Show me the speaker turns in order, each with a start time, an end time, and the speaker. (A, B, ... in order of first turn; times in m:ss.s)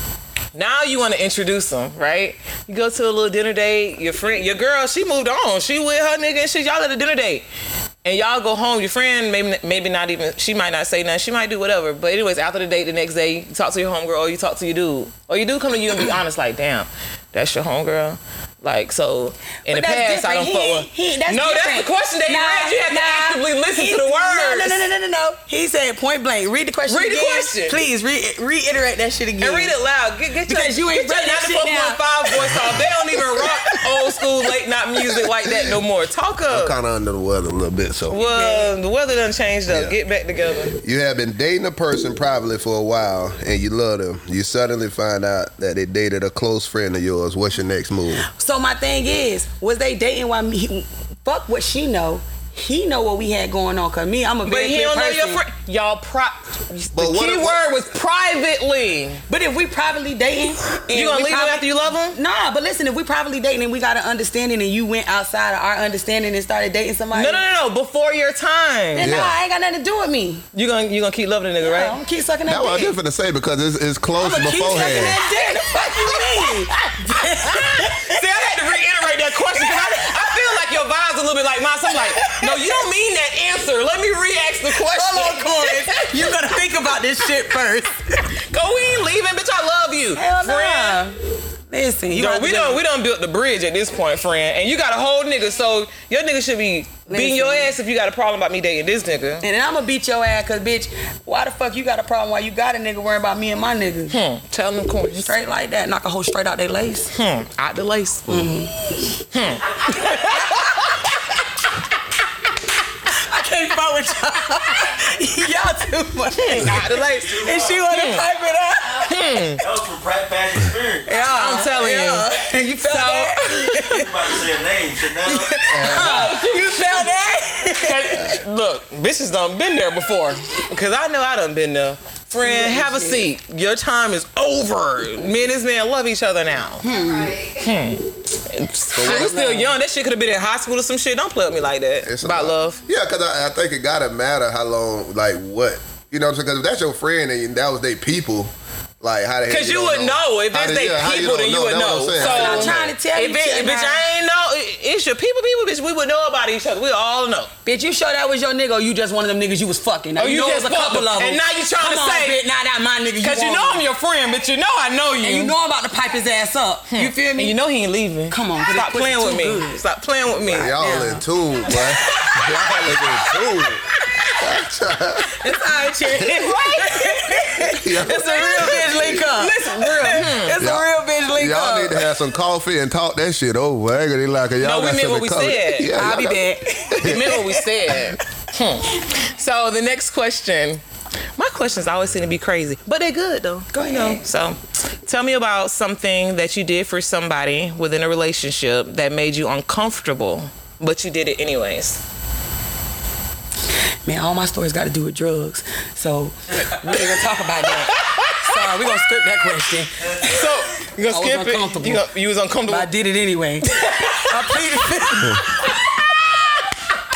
0:00.5-0:07.4 A
0:08.0-0:24.8 A
0:19.7-0:29.7 B
0:26.9-0:27.8 A
0:29.4-0:36.8 A
0:30.5-0:32.8 B
0:33.4-0:34.1 B
0:36.5-0:38.2 C
0:38.1-0:40.8 A
0:38.1-0:38.7 B
0:39.7-0:39.9 C
0:40.8-0:48.2 C
0:48.3-0:55.4 B
0:54.4-0:59.2 A
0:56.9-0:57.6 C
0:59.3-1:07.4 B
1:00.9-1:02.2 A
1:07.1-1:09.1 A
1:08.9-1:10.4 B
1:09.0-1:09.3 C
1:10.5-1:12.0 A
1:11.6-1:12.9 B
1:12.5-1:15.2 C
1:14.2-1:18.2 B
1:17.4-1:26.9 A
1:19.6-1:20.3 B
1:22.2-1:22.8 B
1:24.8-1:28.2 B
1:28.5-1:31.0 A
1:30.1-1:31.2 B
1:31.7-1:32.8 B
1:32.1-1:39.4 A
1:37.1-1:37.7 B
1:39.4-1:44.1 B
1:44.1-1:45.4 A
1:45.2-1:47.1 B
1:47.1-1:48.5 A
1:48.3-1:48.7 B
1:49.3-1:51.0 A
1:49.9-1:50.9 B
1:53.1-1:59.5 B
1:56.4-1:57.4 A
1:57.1-1:57.8 D
1:57.9-1:58.2 A
1:59.1-1:59.6 A
1:59.6-2:01.2 D
2:01.0-2:04.1 B
2:01.3-2:03.9 A
2:03.9-2:05.6 D
2:05.2-2:08.3 B
2:05.7-2:06.2 C
2:05.8-2:16.8 A
2:12.4-2:13.2 B
2:16.8-2:17.5 B
2:17.6-2:22.8 A
2:18.9-2:19.6 C
2:19.2-2:19.6 B
2:22.0-2:32.9 C
2:29.5-2:37.5 A
2:32.2-2:34.0 B
2:37.6-2:43.8 B
2:40.2-2:42.4 A
2:43.2-2:45.5 A
2:45.2-2:47.5 B
2:46.9-2:50.7 A
2:48.3-2:49.8 B
2:50.4-2:53.8 C
2:50.6-2:51.2 B
2:54.4-2:55.4 C
2:55.3-3:02.1 B
2:56.1-2:57.6 A
2:57.8-2:58.4 C
2:58.2-3:00.6 A
3:00.6-3:07.3 C
3:04.6-3:05.9 A
3:06.0-3:08.0 B
3:07.0-3:10.8 A
3:11.4-3:22.0 A
3:13.7-3:14.2 B
3:24.0-3:30.5 B
3:28.0-3:28.7 A
3:30.2-3:32.9 A
3:31.1-3:32.0 B
3:32.7-3:35.8 B
3:33.7-3:36.7 A